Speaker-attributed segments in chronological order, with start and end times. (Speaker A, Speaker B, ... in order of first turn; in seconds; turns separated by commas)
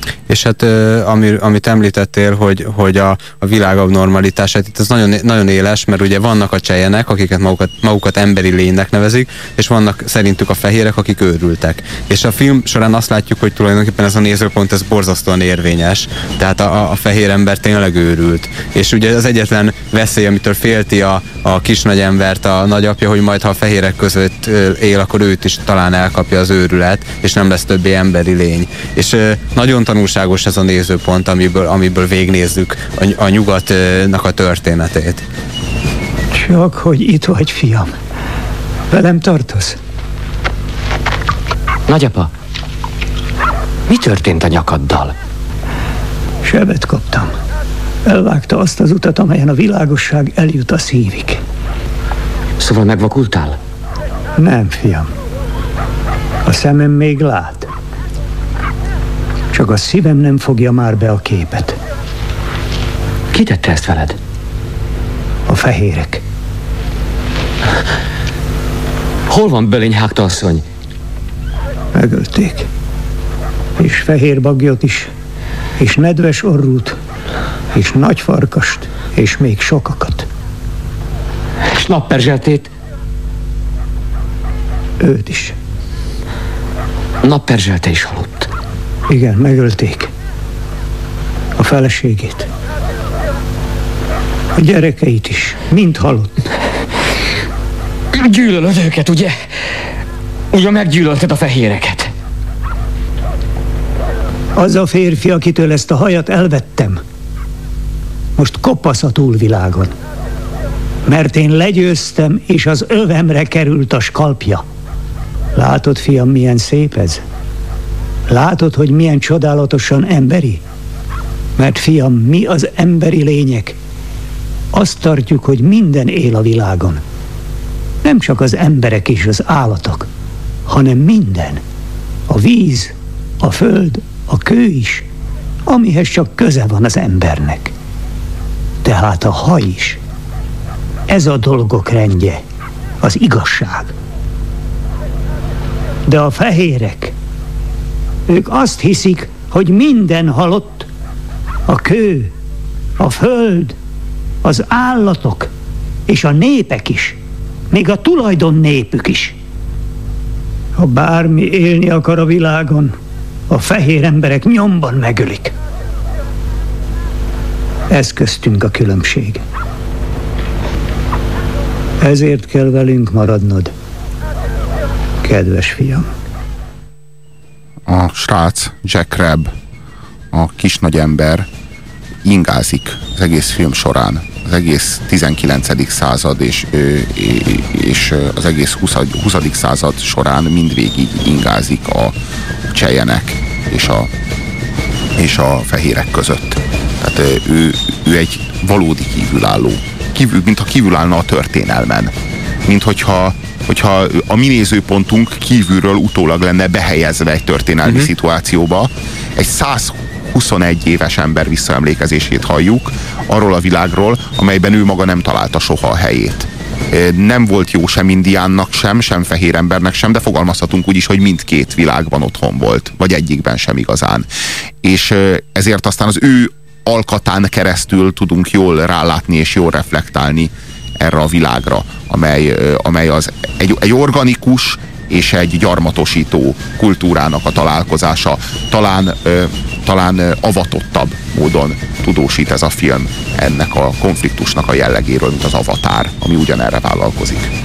Speaker A: 0.3-35.2, Speaker B: 36.3-37.9, Speaker B: 38.9-39.8, Speaker C: 41.9-42.3, Speaker C: 43.9-45.1, Speaker B: 46.4-47.3, Speaker B: 48.1-51.4, Speaker C: 52.6-53.6, Speaker B: 54.4-55.1, Speaker B: 56.5-57.7, Speaker B: 59.5-61.8, Speaker C: 63.3-64.2, Speaker B: 65.5-66.2, Speaker C: 69.3-70.6, Speaker B: 71.9-72.7, Speaker B: 73.8-75.1, Speaker B: 75.8-77.0, Speaker B: 77.7-80.3, Speaker C: 81.7-82.7, Speaker B: 85.0-85.5, Speaker C: 87.2-88.5, Speaker B: 89.1-90.1, Speaker B: 91.6-92.5, Speaker B: 94.6-96.3, Speaker C: 98.1-99.4, Speaker C: 100.5-102.1, Speaker B: 104.6-107.0, Speaker B: 108.4-109.9, Speaker B: 111.1-114.6, Speaker B: 115.5-117.2, Speaker B: 118.3-120.6, Speaker B: 121.6-123.8, Speaker B: 124.7-127.0, Speaker B: 128.0-130.1, Speaker B: 130.7-131.6, Speaker B: 132.3-135.1, Speaker B: 135.7-137.7, Speaker B: 138.8-140.0, Speaker B: 141.1-142.4, Speaker B: 143.0-143.9, Speaker B: 146.1-147.1, Speaker B: 148.3-150.9, Speaker B: 151.7-152.3, Speaker B: 153.0-153.8, Speaker B: 154.4-155.5, Speaker B: 156.1-157.2, Speaker B: 157.7-159.4, Speaker B: 160.8-163.0, Speaker B: 163.5-165.5, Speaker B: 167.9-169.4, Speaker B: 172.0-173.7, Speaker B: 175.2-176.1, Speaker D: 177.9-179.5, Speaker D: 180.3-181.5, Speaker D: 182.2-192.2, Speaker D: 192.7-194.1, Speaker D: 195.2-202.1, Speaker D: 202.7-224.3, Speaker D: 224.8-247.5